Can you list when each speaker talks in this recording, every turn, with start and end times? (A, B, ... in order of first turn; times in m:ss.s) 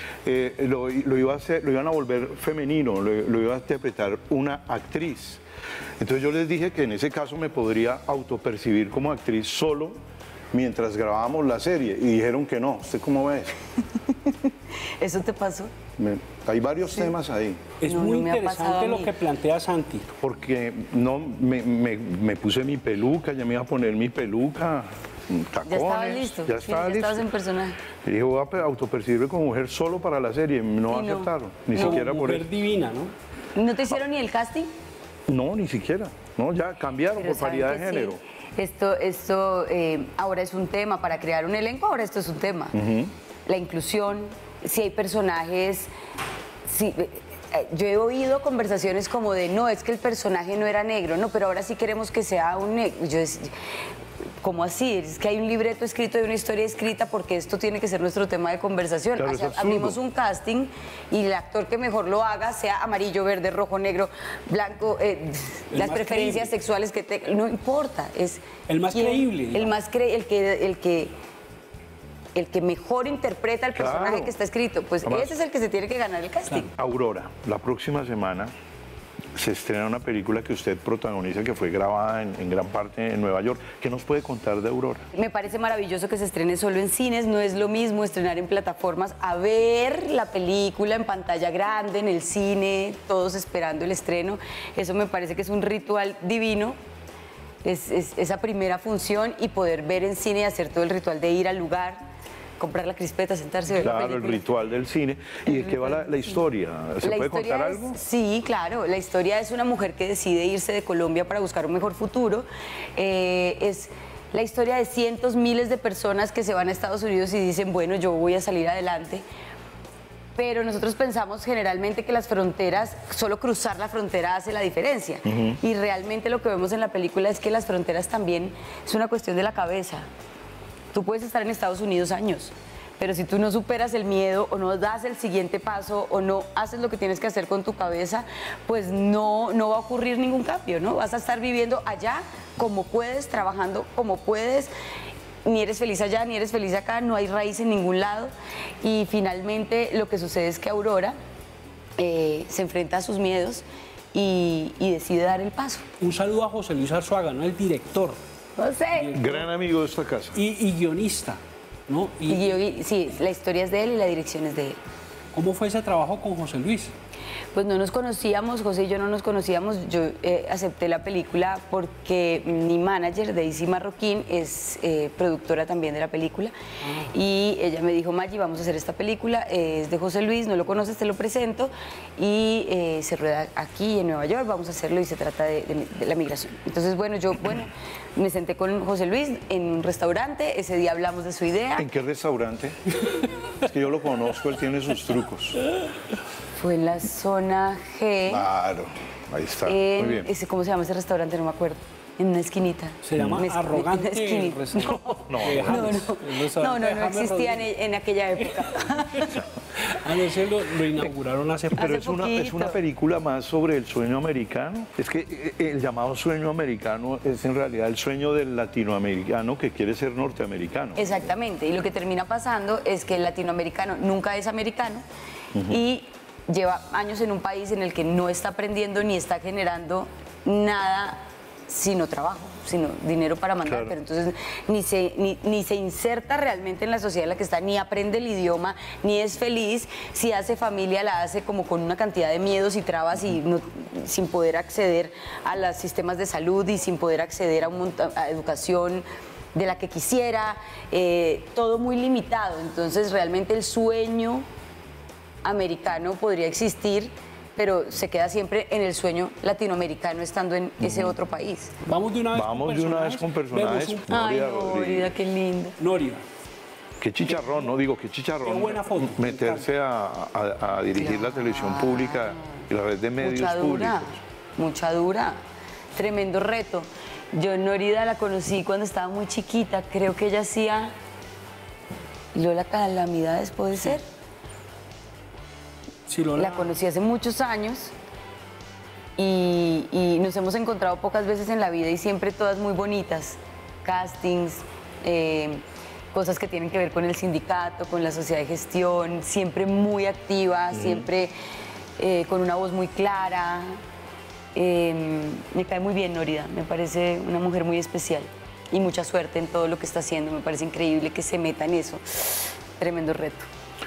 0:00.2-0:05.4 A
0:06.0-0:10.0 A
0:10.5-0:13.6 A
0:14.0-0:15.7 B
0:16.0-0:17.7 A
0:17.8-0:20.1 C
0:17.8-0:19.1 B
0:20.2-0:27.2 A
0:25.6-0:27.8 B
0:28.0-0:32.5 A
0:30.9-0:32.0 B
0:31.7-0:33.1 C
0:33.5-0:34.7 B
0:35.3-0:38.2 A
0:37.2-0:42.7 B
0:42.7-0:43.1 A
0:43.4-0:45.9 B
0:46.6-0:53.5 B
0:54.4-1:11.1 B
0:59.2-1:00.0 A
1:05.7-1:06.5 C
1:08.7-1:09.7 C
1:12.3-1:16.7 B
1:13.7-1:14.3 A
1:15.0-1:15.4 A
1:16.7-1:18.5 A
1:19.3-1:25.1 A
1:25.1-1:36.8 B
1:37.6-1:42.0 B
1:42.6-1:44.4 B
1:43.7-1:48.0 A
1:45.5-1:46.4 B
1:47.0-1:59.2 B
2:00.4-2:10.1 B
2:05.2-2:05.6 A
2:10.9-2:24.7 B
2:25.4-2:31.2 B
2:32.0-2:35.8 B
2:36.0-2:38.2 C
2:38.6-2:39.2 B
2:38.9-2:39.5 C
2:39.1-2:40.4 A
2:40.3-2:42.6 C
2:42.3-2:44.8 B
2:45.3-2:46.9 C
2:47.5-3:11.9 B
3:11.8-3:12.8 A
3:13.6-3:15.6 A
3:16.5-3:18.4 B
3:18.3-3:20.3 A
3:19.6-3:29.5 B
3:23.0-3:27.7 C
3:23.2-3:23.4 A
3:24.8-3:26.0 A
3:29.8-3:31.8 C
3:31.7-3:41.2 A
3:31.7-3:32.8 B
3:41.0-3:45.0 B
3:45.5-3:45.8 A
3:45.7-4:14.4 B
3:53.6-3:54.0 A
4:15.4-4:21.7 B
4:20.8-4:21.2 A
4:21.8-4:24.1 C
4:22.3-4:25.1 A
4:24.1-4:25.8 B
4:25.8-4:26.2 C
4:27.0-4:34.2 A
4:28.4-4:29.7 C
4:31.0-4:32.6 B
4:33.2-4:35.4 B
4:35.9-4:40.9 B
4:42.3-4:44.0 B
4:46.1-4:46.7 C
4:46.4-4:47.9 B
4:49.2-5:01.3 B
5:00.7-5:01.1 A
5:02.0-5:03.8 B
5:04.5-5:13.5 B